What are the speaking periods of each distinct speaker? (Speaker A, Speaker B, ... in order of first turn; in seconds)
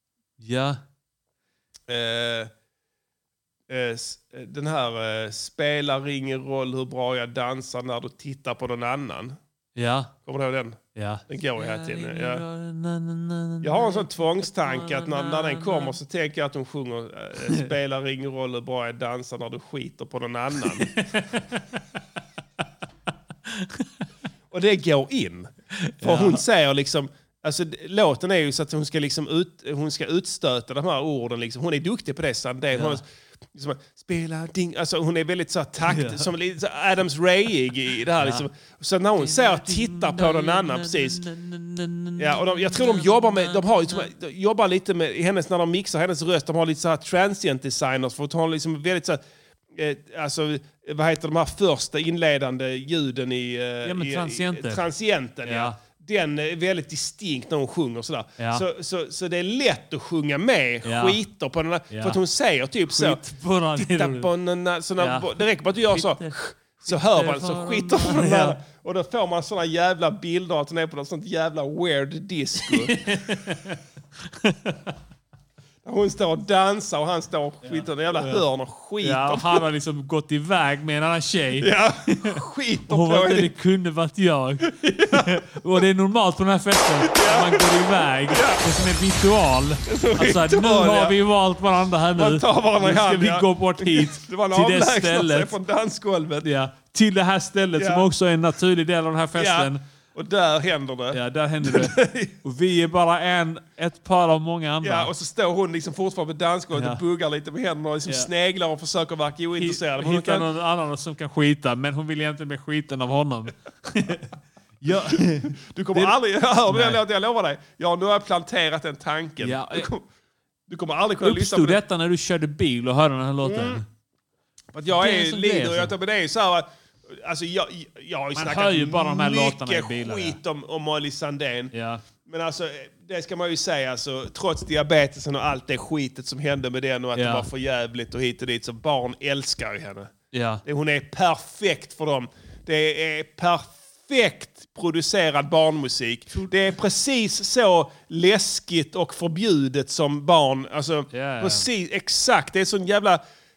Speaker A: 0.4-0.8, 9.8-10.1, 10.9-15.9, 20.8-21.8, 23.5-23.8, 25.9-26.4, 32.7-33.0, 35.9-36.3, 38.2-38.4, 39.2-44.1, 53.8-54.8, 55.4-55.8, 58.4-58.6, 60.8-61.2, 61.9-62.2, 62.9-64.3, 65.0-65.3, 65.9-68.6, 72.6-73.8, 74.3-74.9, 77.6-78.4, 79.0-95.5, 96.4-99.8, 101.1-105.1, 106.7-107.0, 109.5-116.2, 116.7-117.0, 119.4-119.9, 121.2-123.8, 124.9-125.9, 128.3-130.4, 131.7-132.0, 137.1-137.5, 140.3-140.6, 151.1-151.7
Speaker B: 1.9-2.5, 3.7-9.4, 10.2-12.4, 13.6-21.0, 24.5-25.5, 26.0-41.2, 42.2-49.2, 49.8-63.2, 63.8-73.1, 75.8-79.6, 81.6-83.5, 84.8-85.3, 87.1-88.6, 89.9-91.2, 92.2-96.5, 97.8-98.1, 99.3-102.3, 104.8-110.5, 115.5-120.0, 120.7-121.8, 123.4-123.8, 124.7-131.7, 132.2-140.1, 140.6-153.2